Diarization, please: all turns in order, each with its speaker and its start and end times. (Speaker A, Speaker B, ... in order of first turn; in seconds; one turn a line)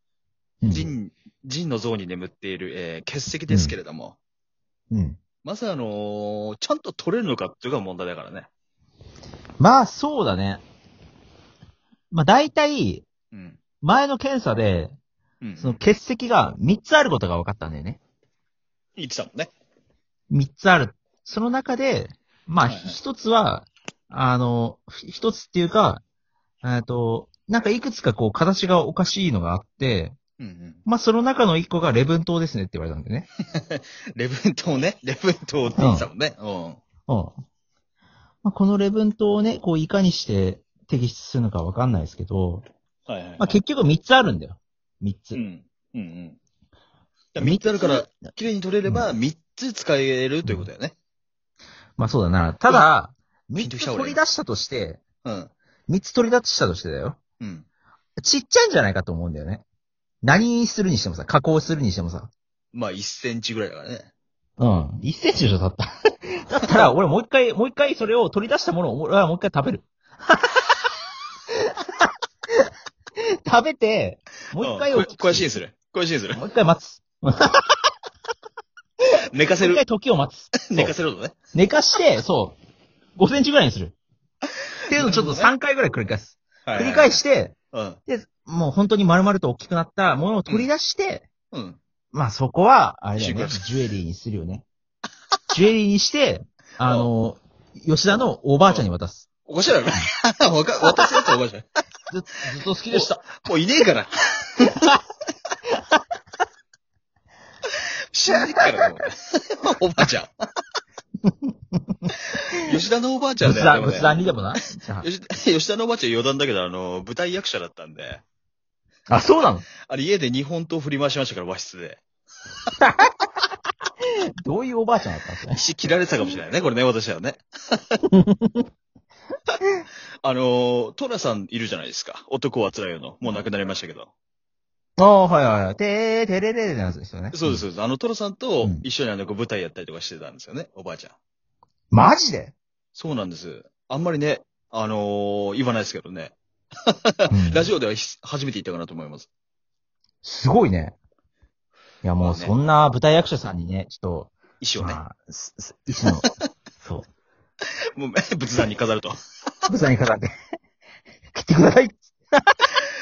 Speaker A: 0.6-0.9
Speaker B: 0.7-4.2
Speaker A: 3.5-3.8
Speaker A: 4.9-5.2
Speaker B: 5.4-8.5
Speaker A: 9.6-10.6
Speaker A: 12.1-13.1
Speaker B: 13.3-13.6
Speaker A: 13.8-15.0
Speaker B: 15.4-15.8
Speaker A: 15.6-18.0
Speaker B: 19.0-19.5
Speaker A: 20.3-26.0
Speaker B: 22.6-23.0
Speaker A: 26.6-30.1
Speaker B: 30.4-30.9
Speaker A: 30.9-33.3
Speaker B: 33.5-36.8
Speaker A: 35.8-36.1
Speaker A: 37.1-37.4
Speaker A: 38.4-42.6
Speaker B: 43.1-43.6
Speaker A: 43.4-45.4
Speaker B: 45.3-46.4
Speaker B: 47.3-51.0
Speaker A: 47.4-48.3
Speaker A: 52.0-55.0
Speaker B: 53.6-54.2
Speaker B: 55.2-55.5
Speaker A: 55.9-57.2
Speaker B: 57.4-57.7
Speaker A: 58.2-59.6
Speaker A: 60.2-62.3
Speaker B: 62.7-64.1
Speaker A: 64.6-69.9
Speaker A: 73.4-75.5
Speaker B: 74.6-76.4
Speaker A: 76.3-77.7
Speaker B: 79.3-79.8
Speaker A: 79.6-80.9
Speaker B: 80.7-81.3
Speaker A: 81.5-82.6
Speaker A: 83.2-83.9
Speaker A: 84.9-87.5
Speaker B: 84.9-85.5
Speaker B: 86.7-87.2
Speaker B: 87.7-88.0
Speaker A: 88.1-91.3
Speaker B: 91.5-91.8
Speaker A: 92.1-94.7
Speaker B: 93.2-93.7
Speaker A: 95.5-99.3
Speaker B: 99.5-101.7
Speaker A: 102.1-103.3
Speaker B: 102.9-104.8
Speaker B: 108.1-110.3
Speaker A: 111.3-111.8
Speaker B: 112.6-114.2
Speaker A: 113.4-115.1
Speaker B: 115.0-118.2
Speaker A: 119.1-119.7
Speaker B: 119.9-122.0
Speaker A: 124.4-125.6
Speaker B: 125.5-128.0
Speaker A: 128.1-128.6
Speaker B: 130.2-134.1
Speaker A: 135.0-137.6
Speaker B: 137.3-141.2
Speaker A: 141.9-142.5
Speaker B: 143.0-146.4
Speaker B: 146.9-149.3
Speaker A: 147.3-147.7
Speaker A: 150.2-150.9
Speaker A: 152.0-156.3
Speaker B: 152.2-152.6
Speaker B: 154.6-155.0
Speaker A: 156.8-157.1
Speaker B: 158.0-159.2
Speaker A: 159.7-160.3
Speaker A: 161.3-162.5